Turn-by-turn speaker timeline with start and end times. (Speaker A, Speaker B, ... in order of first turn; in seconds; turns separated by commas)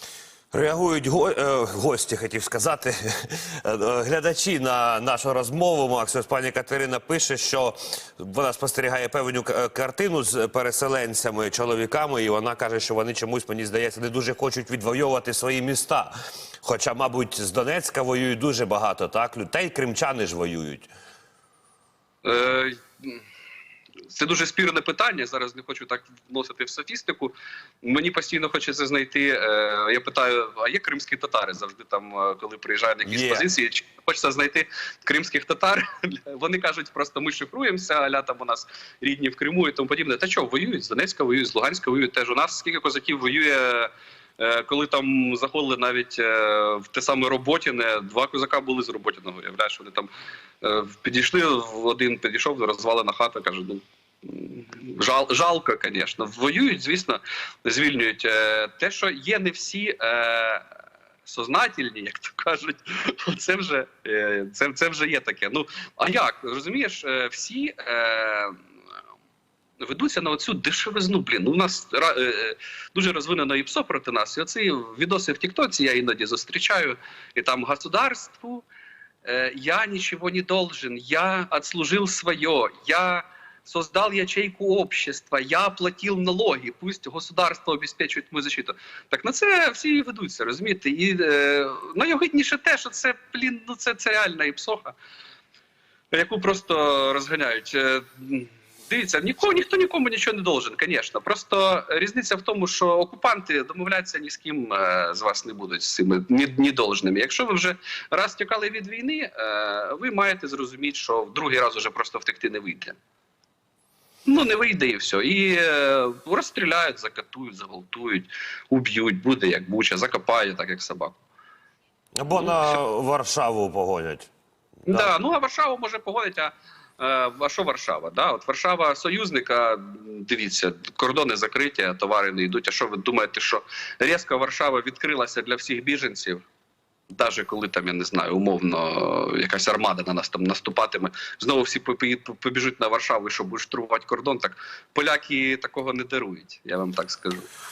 Speaker A: 0.5-20.9, Speaker B: 22.2-23.2, Speaker B: 24.1-60.7, Speaker A: 33.0-33.4, Speaker B: 61.2-68.6, Speaker B: 69.8-78.7, Speaker B: 79.2-94.9, Speaker B: 96.1-113.0, Speaker B: 114.2-121.2, Speaker A: 122.2-124.3, Speaker B: 124.8-136.4, Speaker B: 137.1-147.5